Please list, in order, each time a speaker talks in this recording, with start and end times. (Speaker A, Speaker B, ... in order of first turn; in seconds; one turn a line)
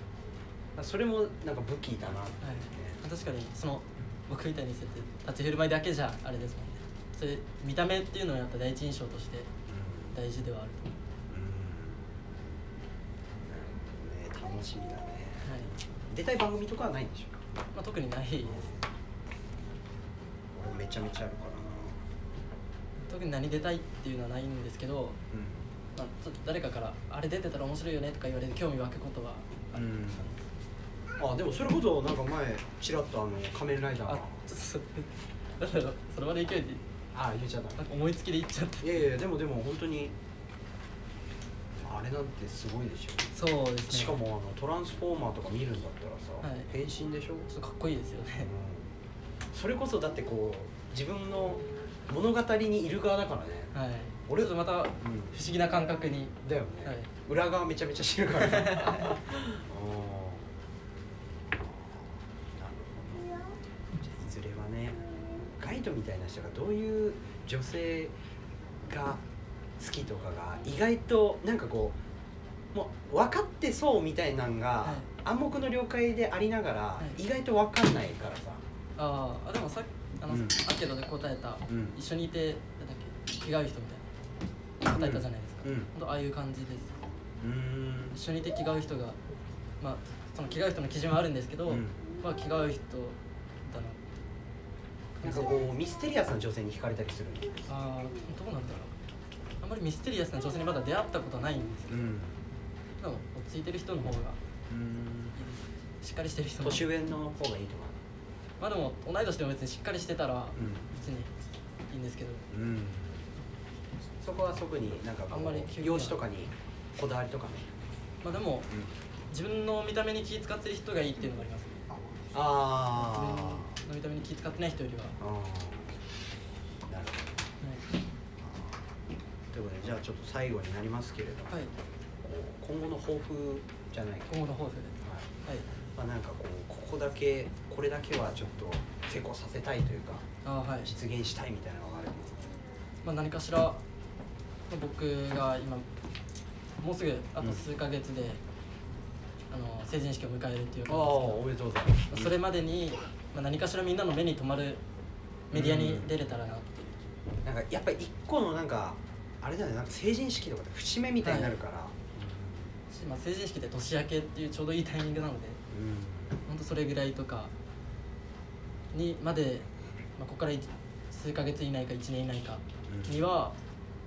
Speaker A: 0.8-3.0
Speaker B: 2.4-9.5
Speaker A: 9.7-10.1
Speaker B: 10.1-10.9
Speaker A: 11.3-12.5
Speaker A: 13.4-17.4
Speaker B: 15.4-15.7
Speaker B: 17.7-18.7
Speaker A: 18.4-18.8
Speaker A: 20.5-22.0
Speaker B: 23.1-25.2
Speaker A: 25.3-25.6
Speaker B: 25.9-29.8
Speaker A: 29.7-30.4
Speaker A: 31.2-34.4
Speaker B: 34.0-36.8
Speaker A: 37.1-37.9
Speaker B: 37.8-39.0
Speaker A: 38.8-40.1
Speaker A: 41.8-43.3
Speaker B: 43.3-44.2
Speaker A: 43.9-47.5
Speaker B: 46.4-46.7
Speaker B: 47.5-48.5
Speaker A: 48.4-48.9
Speaker A: 49.5-53.7
Speaker B: 53.7-57.1
Speaker A: 54.3-55.3
Speaker A: 56.4-60.5
Speaker B: 58.4-59.2
Speaker A: 61.5-63.4
Speaker A: 64.0-65.0
Speaker A: 65.6-68.1
Speaker A: 68.8-69.2
Speaker A: 69.8-72.0
Speaker A: 72.7-78.6
Speaker B: 79.0-84.1
Speaker A: 80.3-80.6
Speaker A: 81.7-82.0
Speaker B: 84.8-87.0
Speaker A: 85.0-85.9
Speaker A: 87.4-88.2
Speaker B: 88.1-89.2
Speaker B: 89.8-94.0
Speaker A: 91.7-92.0
Speaker B: 95.2-95.5
Speaker A: 95.2-97.7
Speaker B: 97.7-98.9
Speaker B: 99.6-102.2
Speaker A: 101.9-102.4
Speaker B: 103.0-104.4
Speaker A: 104.7-105.3
Speaker B: 105.3-106.9
Speaker A: 106.6-108.0
Speaker B: 108.6-111.3
Speaker A: 110.6-110.9
Speaker B: 111.9-112.5
Speaker A: 112.5-113.3
Speaker A: 114.2-117.7
Speaker B: 115.3-116.2
Speaker B: 118.2-118.7
Speaker B: 119.3-121.8
Speaker A: 122.3-123.7
Speaker B: 122.9-125.2
Speaker A: 125.2-126.0
Speaker A: 126.9-127.5
Speaker A: 128.4-128.8
Speaker A: 129.5-131.7
Speaker A: 132.2-134.3
Speaker B: 134.3-135.7
Speaker A: 135.0-135.3
Speaker A: 135.9-140.3
Speaker B: 140.4-140.9
Speaker A: 140.8-142.5
Speaker B: 143.0-143.8
Speaker B: 144.7-145.9
Speaker B: 146.8-148.4
Speaker A: 147.4-147.6
Speaker B: 149.5-151.4
Speaker A: 150.9-152.3
Speaker B: 152.1-154.8
Speaker B: 155.5-157.0
Speaker A: 155.5-156.2
Speaker A: 157.4-162.7
Speaker B: 161.2-161.6
Speaker B: 162.9-165.6
Speaker A: 165.7-166.3
Speaker B: 166.4-167.5
Speaker B: 168.9-173.5
Speaker A: 172.9-173.2